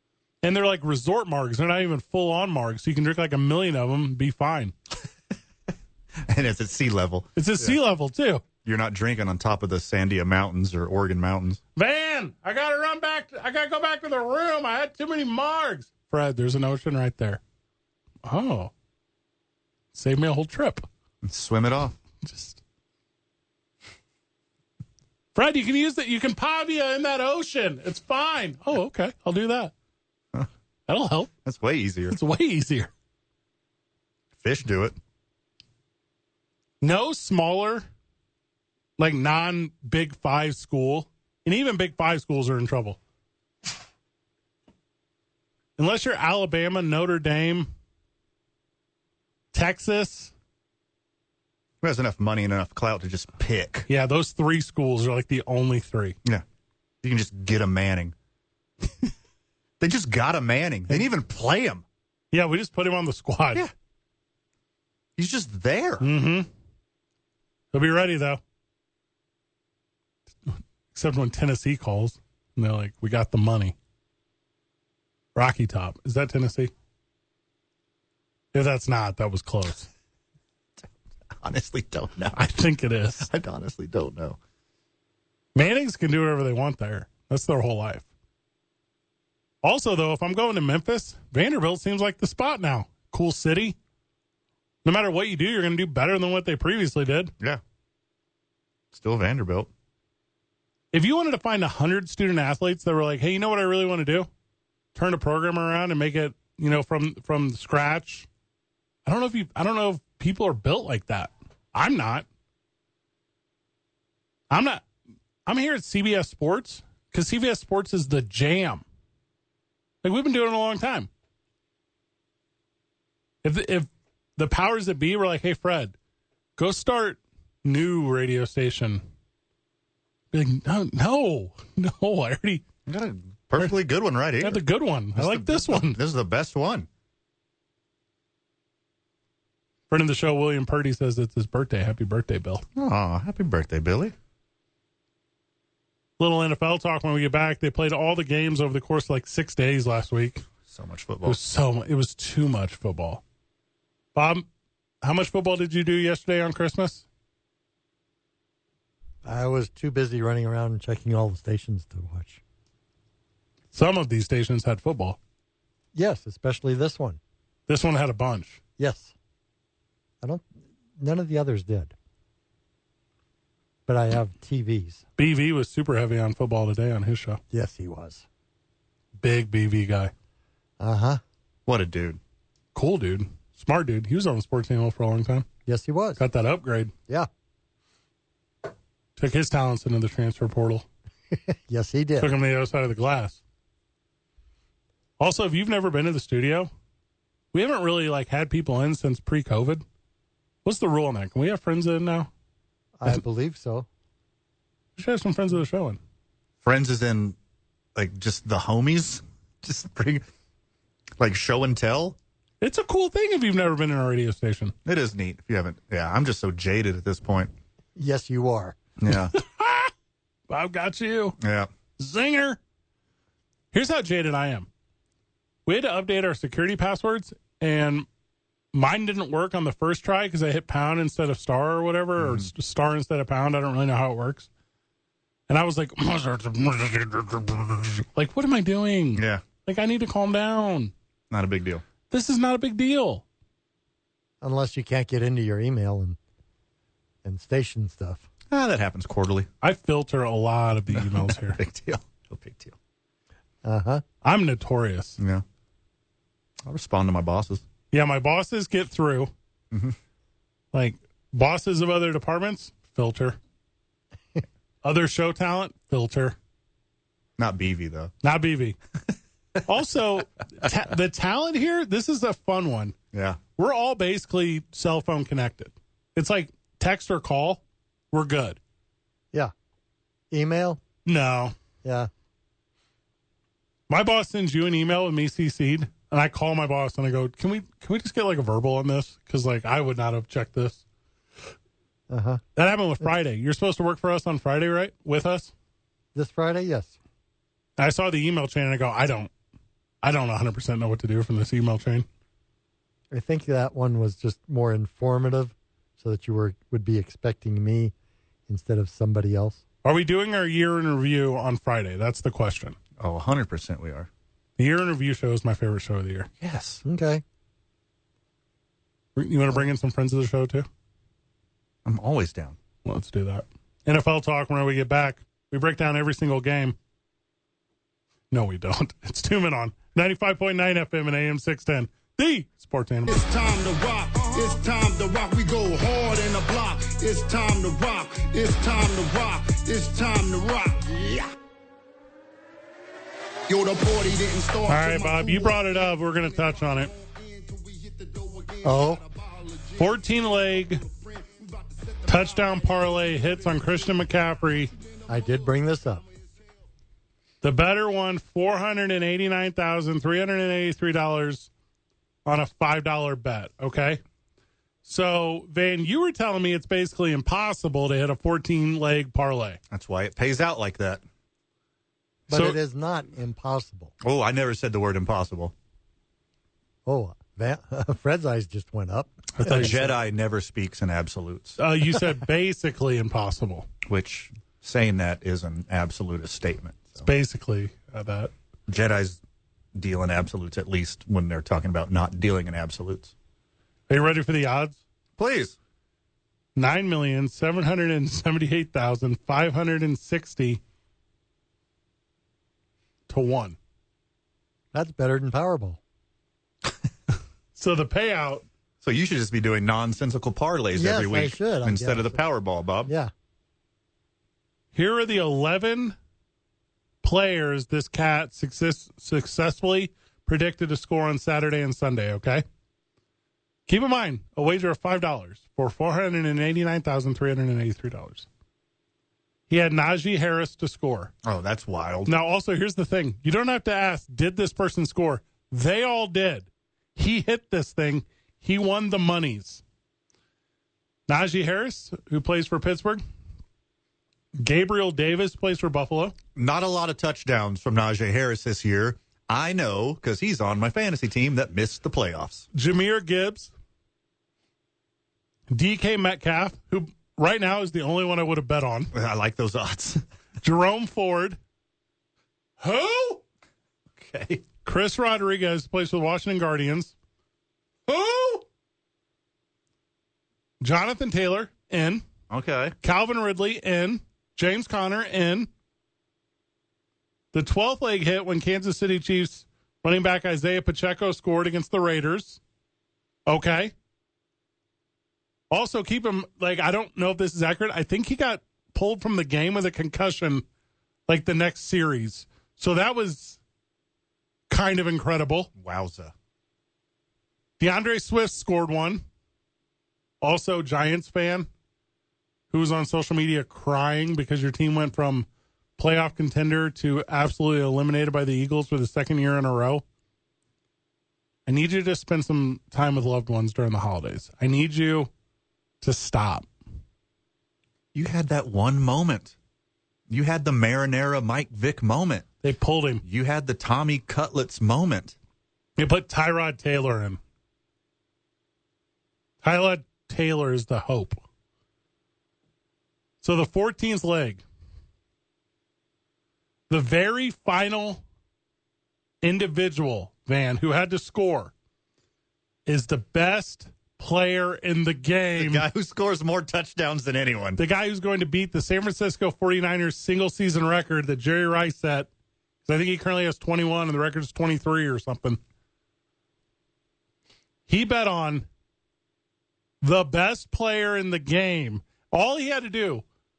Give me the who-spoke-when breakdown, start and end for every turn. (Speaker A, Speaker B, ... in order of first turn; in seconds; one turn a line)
Speaker A: 0.4-4.7
Speaker B: 6.2-7.8
Speaker A: 7.3-8.4
Speaker B: 8.6-11.6
Speaker A: 11.8-17.4
Speaker A: 18.2-18.7
Speaker A: 19.9-20.9
Speaker B: 21.2-21.9
Speaker A: 22.2-22.6
Speaker A: 25.3-29.7
Speaker A: 30.9-31.3
Speaker B: 31.4-32.2
Speaker A: 32.1-32.9
Speaker B: 34.4-35.0
Speaker A: 36.8-37.8
Speaker A: 39.0-43.0
Speaker A: 45.8-47.7
Speaker A: 49.5-50.3
Speaker B: 51.8-53.9
Speaker A: 53.9-56.1
Speaker B: 57.0-58.1
Speaker B: 59.8-61.8
Speaker A: 62.3-63.6
Speaker B: 65.2-66.1
Speaker A: 66.0-66.5
Speaker A: 67.7-68.4
Speaker A: 70.5-73.7
Speaker A: 75.3-76.7
Speaker A: 78.5-79.9
Speaker B: 81.3-82.4
Speaker A: 82.3-83.3
Speaker B: 83.2-84.4
Speaker A: 85.5-88.0
Speaker A: 89.6-93.8
Speaker A: 94.8-97.3
Speaker B: 98.9-99.7
Speaker A: 100.9-104.3
Speaker A: 104.9-108.3
Speaker A: 109.0-112.3
Speaker A: 114.5-114.8
Speaker A: 115.5-118.8
Speaker A: 120.0-121.1
Speaker A: 123.4-125.9
Speaker A: 126.6-129.0
Speaker A: 130.3-132.6
Speaker B: 132.8-136.9
Speaker A: 134.4-136.0
Speaker A: 139.9-142.6
Speaker B: 142.8-144.1
Speaker A: 146.2-150.4
Speaker B: 150.7-151.4
Speaker A: 151.2-153.2
Speaker A: 154.1-154.4
Speaker A: 155.0-157.0
Speaker C: 159.2-162.4
Speaker A: 163.7-165.2
Speaker C: 165.9-167.2
Speaker A: 167.7-168.6
Speaker C: 168.8-169.1
Speaker C: 171.0-171.9
Speaker C: 173.9-175.0
Speaker A: 175.2-177.4
Speaker C: 177.5-178.2
Speaker A: 179.2-180.1
Speaker C: 180.8-181.2
Speaker B: 181.7-182.2
Speaker A: 182.7-185.5
Speaker C: 185.7-186.2
Speaker A: 186.2-186.9
Speaker A: 189.2-190.8
Speaker C: 191.3-192.3
Speaker A: 192.2-193.4
Speaker A: 195.2-196.7
Speaker A: 197.5-199.8
Speaker A: 200.6-202.3
Speaker C: 203.0-203.9
Speaker A: 205.0-206.0
Speaker B: 206.6-207.3
Speaker B: 207.9-210.2
Speaker B: 211.2-212.2
Speaker A: 212.6-214.7
Speaker B: 214.8-217.5
Speaker C: 217.9-218.8
Speaker B: 219.0-219.3
Speaker A: 219.1-219.9
Speaker A: 220.5-221.4
Speaker B: 221.4-221.7
Speaker A: 222.0-222.6
Speaker A: 223.7-224.7
Speaker A: 225.7-228.1
Speaker A: 228.7-234.5
Speaker B: 232.2-232.5
Speaker A: 235.5-240.9
Speaker B: 239.2-239.4
Speaker B: 241.3-241.8
Speaker A: 242.1-243.2
Speaker C: 244.4-246.2
Speaker C: 247.2-248.2
Speaker B: 248.5-249.5
Speaker A: 249.6-251.6
Speaker B: 250.9-252.7
Speaker C: 253.6-254.0
Speaker A: 254.2-255.2
Speaker B: 255.2-255.4
Speaker B: 256.6-257.6
Speaker A: 257.9-259.3
Speaker B: 259.7-259.9
Speaker A: 260.7-263.4
Speaker A: 264.8-266.4
Speaker B: 267.4-268.1
Speaker A: 268.2-268.8
Speaker A: 269.6-272.9
Speaker B: 273.1-273.4
Speaker A: 273.6-277.6
Speaker A: 278.1-278.6
Speaker C: 280.3-280.8
Speaker A: 281.1-281.5
Speaker C: 281.8-282.1
Speaker A: 283.9-290.8
Speaker C: 292.1-292.4
Speaker A: 292.6-295.5
Speaker C: 296.1-296.9
Speaker A: 297.8-299.3
Speaker A: 300.0-302.1
Speaker C: 303.1-307.9
Speaker C: 308.5-309.6
Speaker A: 309.8-312.8
Speaker B: 313.0-314.1
Speaker A: 314.6-316.3
Speaker B: 316.4-316.8
Speaker C: 316.8-317.2
Speaker A: 319.1-320.7
Speaker B: 321.8-322.6
Speaker A: 322.8-326.8
Speaker A: 328.3-333.2
Speaker D: 333.2-341.2
Speaker D: 343.5-345.0
Speaker A: 344.7-346.9
Speaker D: 348.0-348.3
Speaker C: 348.6-349.0
Speaker A: 349.8-350.8
Speaker A: 352.1-354.7
Speaker C: 355.1-356.0
Speaker A: 357.4-361.5
Speaker A: 362.2-364.0
Speaker A: 364.8-369.6
Speaker B: 369.7-371.0
Speaker A: 372.3-372.6
Speaker C: 372.3-373.9
Speaker B: 374.0-375.5
Speaker C: 376.9-379.9
Speaker A: 379.4-379.8
Speaker B: 379.4-381.6
Speaker A: 381.6-383.7
Speaker B: 383.8-387.1
Speaker A: 387.0-388.3
Speaker B: 388.7-389.2
Speaker B: 389.7-393.1
Speaker A: 393.9-394.8
Speaker B: 395.2-395.6
Speaker A: 396.6-400.6
Speaker A: 403.1-403.6
Speaker C: 404.7-405.8
Speaker A: 407.6-408.4
Speaker B: 408.8-412.9
Speaker C: 410.7-412.2
Speaker C: 412.9-413.1
Speaker A: 414.7-415.9
Speaker A: 417.0-422.4
Speaker A: 423.7-428.3
Speaker A: 429.5-431.1
Speaker B: 431.2-432.1
Speaker A: 432.1-439.6
Speaker A: 441.1-443.0
Speaker A: 444.4-446.1
Speaker B: 446.4-452.5
Speaker A: 452.5-453.5
Speaker A: 455.5-458.9
Speaker B: 458.9-460.0
Speaker A: 460.4-461.4
Speaker A: 462.6-463.2
Speaker B: 463.9-464.4
Speaker A: 464.6-466.9
Speaker A: 467.9-468.4
Speaker A: 470.6-472.0
Speaker B: 472.3-472.7
Speaker A: 472.8-475.5
Speaker A: 477.3-482.4
Speaker A: 483.3-483.7
Speaker A: 485.5-490.4
Speaker A: 491.1-493.4
Speaker A: 494.5-495.5
Speaker B: 495.6-496.1
Speaker A: 497.6-499.0
Speaker A: 500.2-501.5
Speaker A: 502.5-505.3
Speaker A: 505.8-509.8
Speaker A: 511.5-515.1
Speaker A: 515.8-516.5
Speaker B: 517.9-519.3
Speaker B: 520.1-522.3
Speaker A: 522.4-523.0
Speaker B: 523.0-525.1
Speaker A: 525.8-527.2
Speaker A: 529.4-531.2
Speaker A: 533.2-534.4
Speaker A: 536.7-538.0
Speaker A: 539.2-541.5
Speaker A: 542.6-545.6
Speaker B: 545.4-547.6
Speaker A: 547.6-552.1
Speaker A: 552.6-555.4
Speaker A: 557.7-558.4
Speaker A: 559.8-563.0